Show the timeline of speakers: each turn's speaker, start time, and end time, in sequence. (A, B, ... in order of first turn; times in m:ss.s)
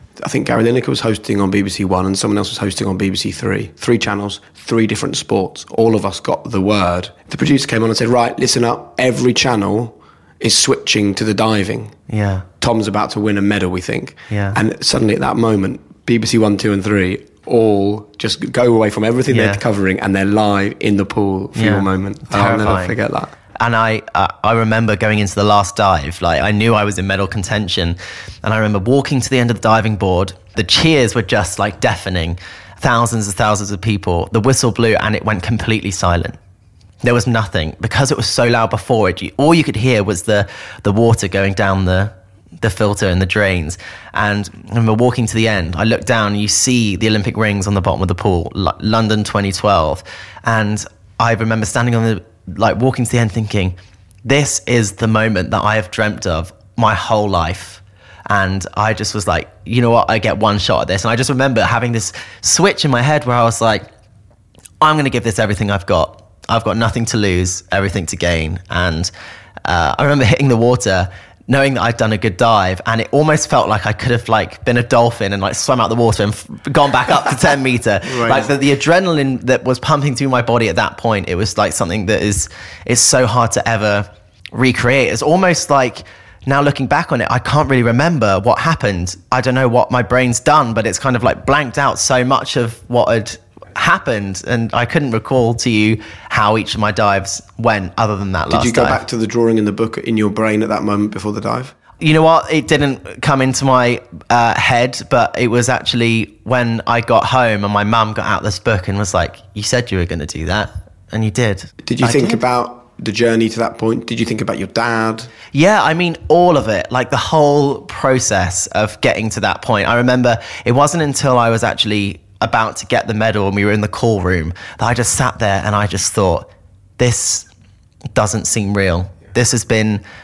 0:00.2-0:11.9 A
0:12.1-0:12.4 B
0:12.6-0:23.3 A
0:14.3-0:14.6 B
0:19.3-0:19.6 B
0:21.5-0:22.9 B
0:23.6-0:36.4 B
0:37.0-1:03.9 B
1:04.8-1:09.1 B
1:09.6-1:39.0 B
1:18.1-1:18.5 A
1:38.5-1:41.7 A
1:42.0-1:52.4 B
1:51.8-1:55.3 A
1:55.5-2:07.5 B
2:08.1-2:10.0 B